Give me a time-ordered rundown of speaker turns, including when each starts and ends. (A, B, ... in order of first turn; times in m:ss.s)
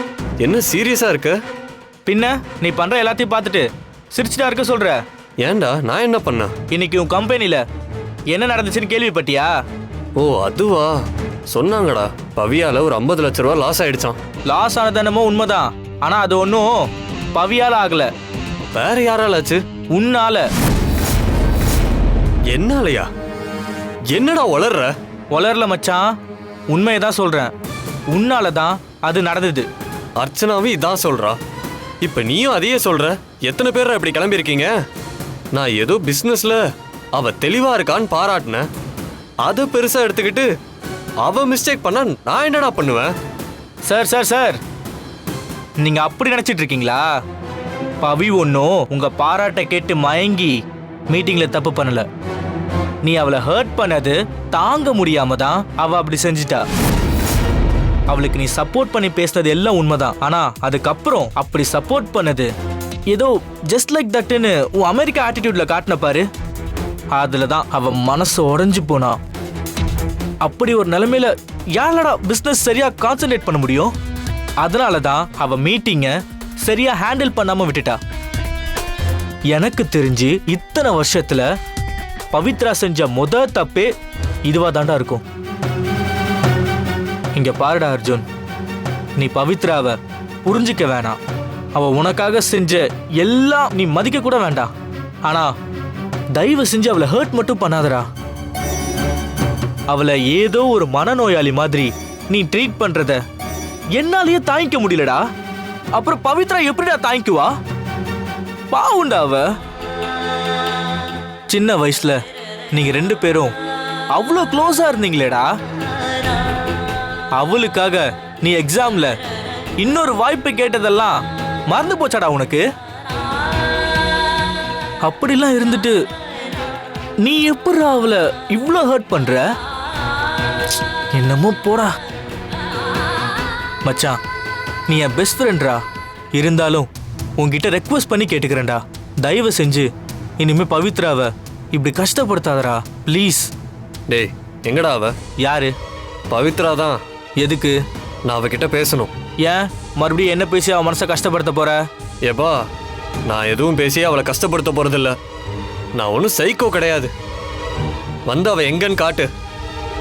0:00.4-0:01.4 A
0:02.0-0:05.0 B
0:05.4-0:06.5 A
0:06.7-0:07.6 B
0:08.3-0:09.5 B
0:10.2-0:14.2 A
0:14.5-0:18.1 B
0:18.7-0:19.6 A
0:19.9-0:20.5 B
0:22.5-0:23.1 A
0:24.1-0:24.9 A
0:25.3-0:26.0 B
0:26.7-0:27.5 B
0:28.1-0:29.7 B
0:30.2-0:31.4 A
0:32.0-0:34.7 A
0:35.5-0:38.6 A
0:39.4-0:40.5 A
0:41.2-0:43.1 A
0:43.8-0:44.6 B
0:45.8-0:47.1 B
0:48.0-0:52.0 B
0:53.0-0:56.6 B
0:58.1-1:02.5 B
1:03.1-1:06.3 B
1:07.1-1:09.2 B
1:10.4-1:13.9 B
1:14.6-1:18.0 B
1:19.5-1:21.5 B
1:22.3-1:23.9 B
1:24.4-1:25.2 B
1:27.3-1:28.2 B
1:29.2-1:31.2 B
1:31.7-1:34.7 B
1:35.2-1:35.5 B
1:36.3-1:38.1 B
1:39.9-1:43.2 B
1:43.9-1:45.2 B
1:45.9-1:47.5 B
1:48.7-1:49.5 B
1:51.5-1:52.2 B
1:52.7-1:53.5 B
1:54.1-1:55.5 B
1:57.4-1:59.2 B
1:59.8-2:02.6 B
2:05.0-2:06.0 B
2:07.2-2:09.5 B
2:11.1-2:12.0 B
2:13.8-2:14.2 B
2:14.9-2:15.8 B
2:16.3-2:23.5 B
2:24.1-2:25.1 A
2:25.4-2:25.7 B
2:26.3-2:27.0 A
2:27.4-2:27.8 B
2:28.2-2:29.1 A
2:29.4-2:31.8 B
2:32.2-2:32.6 A
2:33.3-2:35.2 A
2:36.0-2:37.1 A
2:38.3-2:39.3 A